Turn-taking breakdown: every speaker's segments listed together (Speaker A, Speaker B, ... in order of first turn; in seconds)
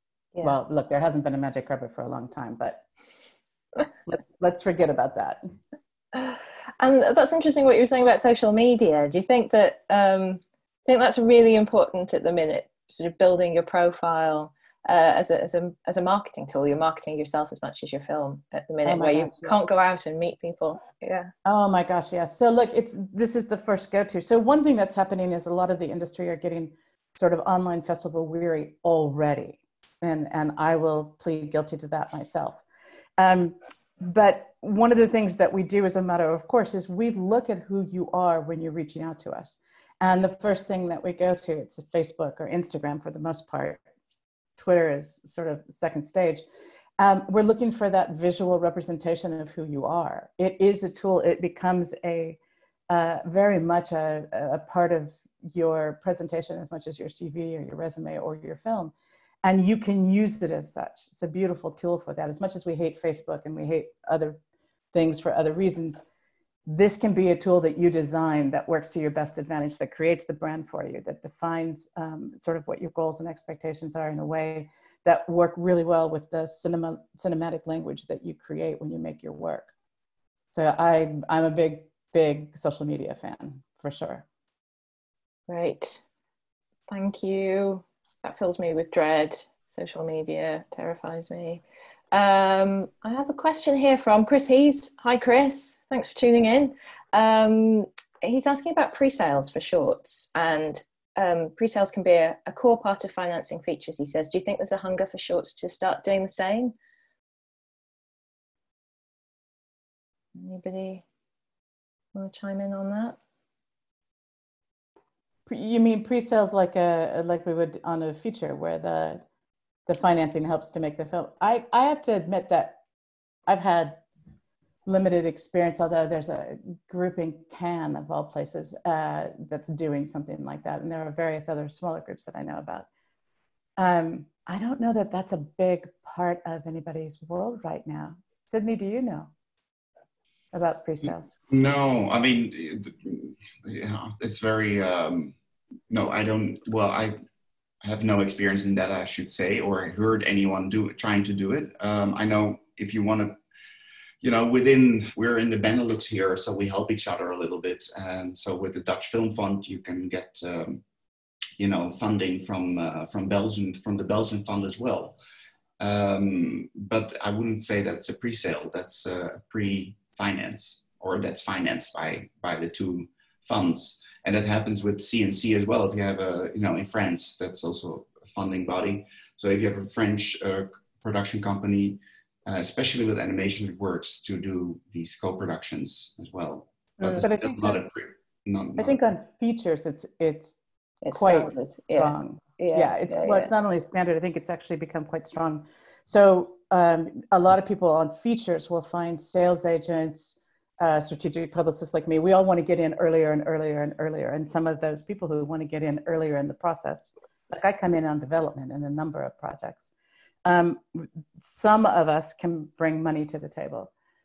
Speaker A: 0.4-2.8, 4.1-5.4, 18.9-19.6, 21.4-32.6, 33.2-43.8, 44.6-46.4, 47.0-52.4, 52.9-58.9, 59.4-64.4, 64.9-66.0, 66.7-79.7, 80.5-84.2, 115.5-119.2, 119.9-122.8, 123.5-124.0, 124.9-132.9, 133.8-139.3, 140.5-141.3, 187.2-187.8, 188.8-190.6, 191.1-209.9, 210.4-213.9
Speaker B: 6.1-21.3, 85.5-86.0, 86.9-106.7, 110.3-111.0, 112.1-113.2, 191.0-193.5
Speaker C: 141.5-145.3, 145.9-147.2, 147.8-153.4, 154.2-160.8, 161.6-165.2, 165.8-189.0